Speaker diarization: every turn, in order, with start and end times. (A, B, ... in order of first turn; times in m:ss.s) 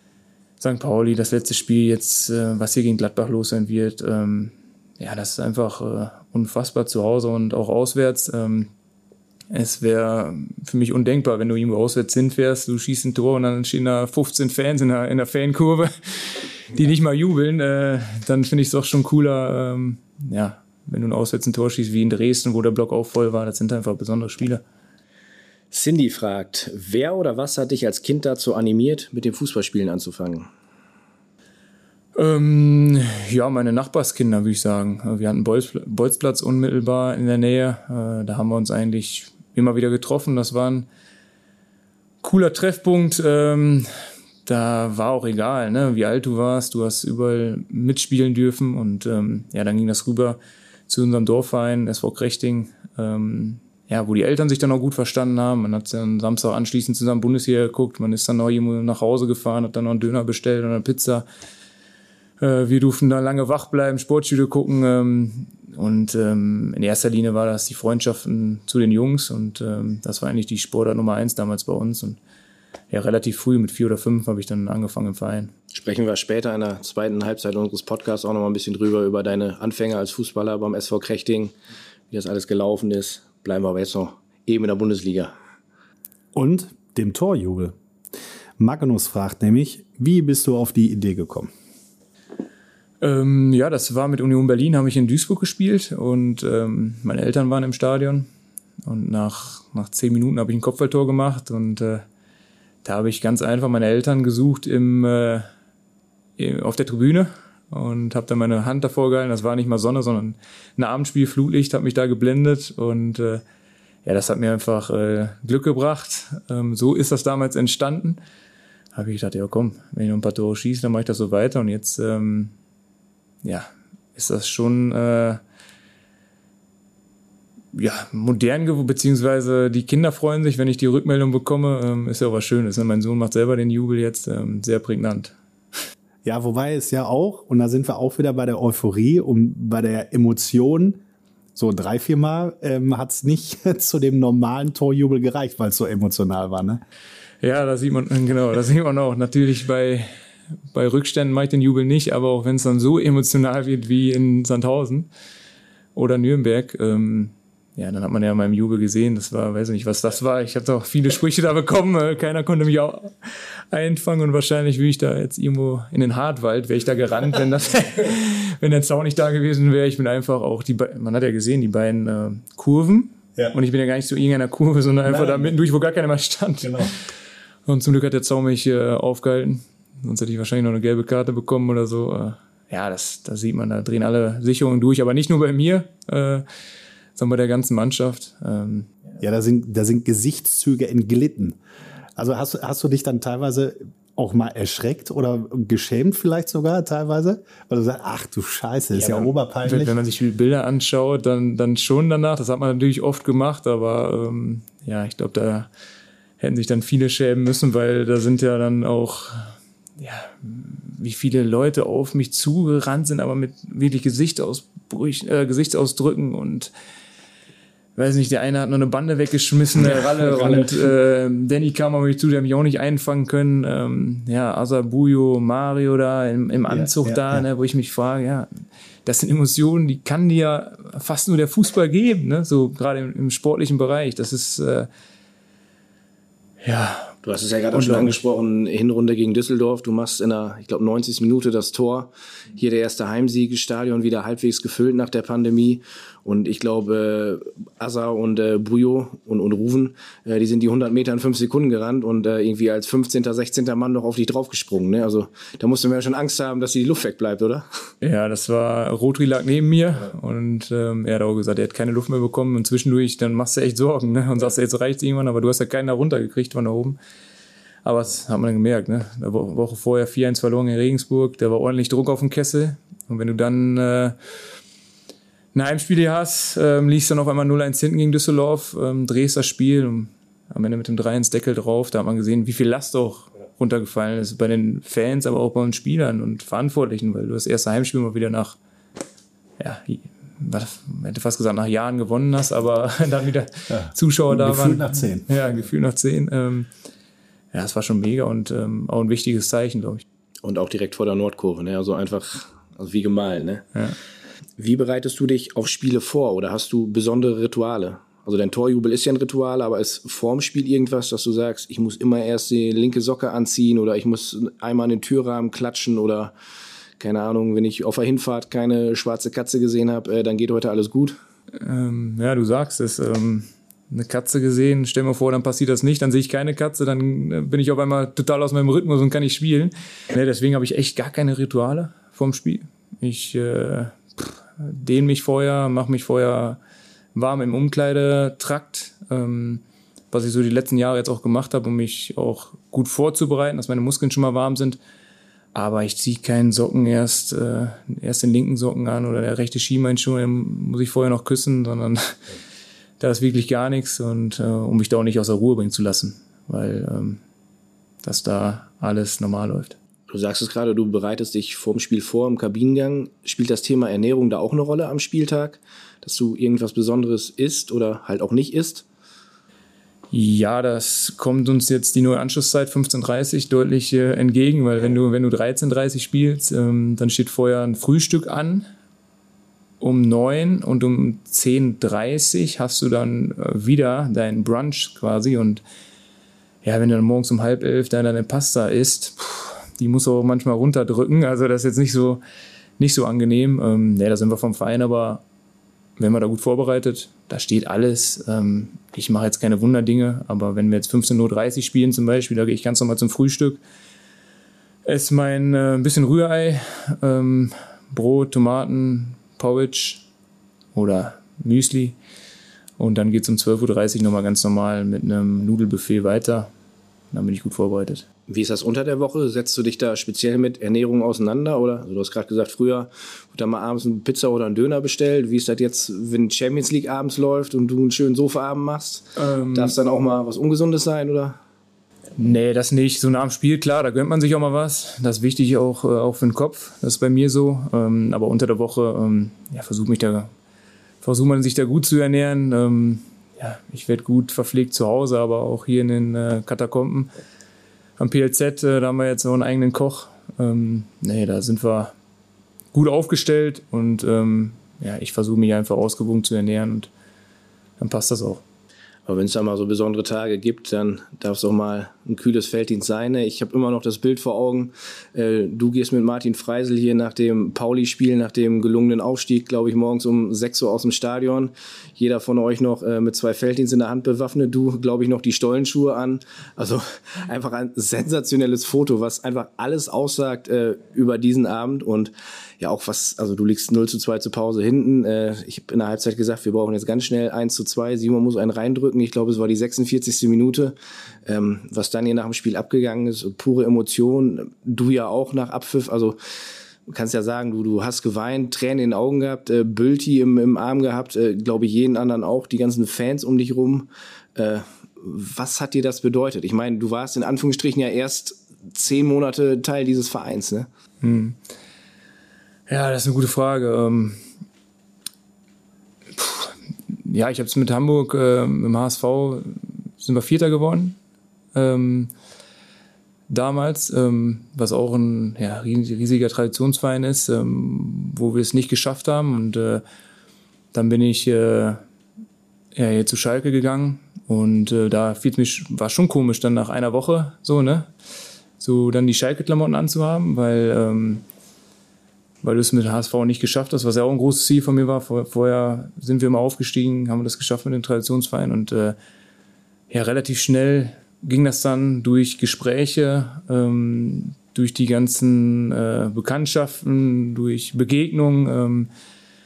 0:00.6-0:08.7 A
0:09.5-0:24.6 A
0:25.7-0:30.5 B
0:32.2-0:40.9 A
0:42.2-0:43.9 A
0:44.5-1:01.2 A
1:02.4-1:12.2 A
1:12.9-1:15.5 A
1:15.7-1:21.5 B
1:22.1-1:25.3 B
1:26.3-1:27.7 C
1:28.6-1:31.5 C
1:33.0-1:38.3 A
1:38.8-1:42.0 A
1:42.8-1:45.5 A
1:46.4-1:53.4 A
1:54.0-1:58.2 A
1:59.0-2:02.5 A
2:03.4-2:05.4 A
2:07.7-2:15.4 A
2:16.2-2:21.0 C
2:21.6-2:26.8 C
2:27.4-2:30.1 A
2:30.7-2:35.1 A
2:36.0-2:56.9 A
2:55.0-2:55.5 C
2:56.6-2:56.9 C
2:57.7-3:06.4 A
3:07.2-3:08.9 A
3:09.2-3:11.6 C
3:12.2-3:19.9 C
3:18.9-3:25.7 A
3:26.4-3:36.7 A
3:38.0-3:48.5 A
3:46.7-3:47.4 C
3:49.0-3:54.9 A
3:56.6-3:57.2 A
3:57.2-4:17.7 B
3:57.7-3:58.2 A
4:18.0-4:27.0 A
4:27.8-4:34.2 A
4:35.5-4:48.6 A
4:49.6-4:56.7 A
4:53.7-4:55.3 C
4:57.5-5:00.0 A
5:00.4-5:03.6 B
5:04.6-5:16.3 B
5:17.0-5:21.2 B
5:21.6-5:36.6 A
5:37.2-5:44.8 A
5:45.6-5:52.2 A
5:53.0-5:57.2 A
5:58.0-5:59.8 A
6:00.1-6:08.8 B
6:10.1-6:18.7 A
6:19.8-6:25.6 A
6:26.6-6:32.2 A
6:32.8-6:35.2 A
6:36.0-6:43.6 A
6:44.9-6:50.0 A
6:50.7-6:52.0 A
6:52.8-6:56.5 A
6:57.1-6:58.0 A
6:58.3-7:11.4 B
7:09.2-7:09.8 A
7:12.2-7:20.3 A
7:21.0-7:27.1 A
7:28.0-7:31.9 A
7:32.7-7:36.9 A
7:37.8-7:38.4 A
7:39.1-8:10.8 B
8:11.3-8:16.2 B
8:16.9-8:30.7 B
8:31.0-8:31.4 A
8:32.7-8:34.2 A
8:36.2-8:41.0 A
8:41.5-8:42.1 A
8:43.3-8:49.8 A
8:50.7-8:51.8 A
8:52.8-8:57.9 A
8:58.6-9:01.2 A
9:02.4-9:09.0 A
9:09.9-9:18.9 A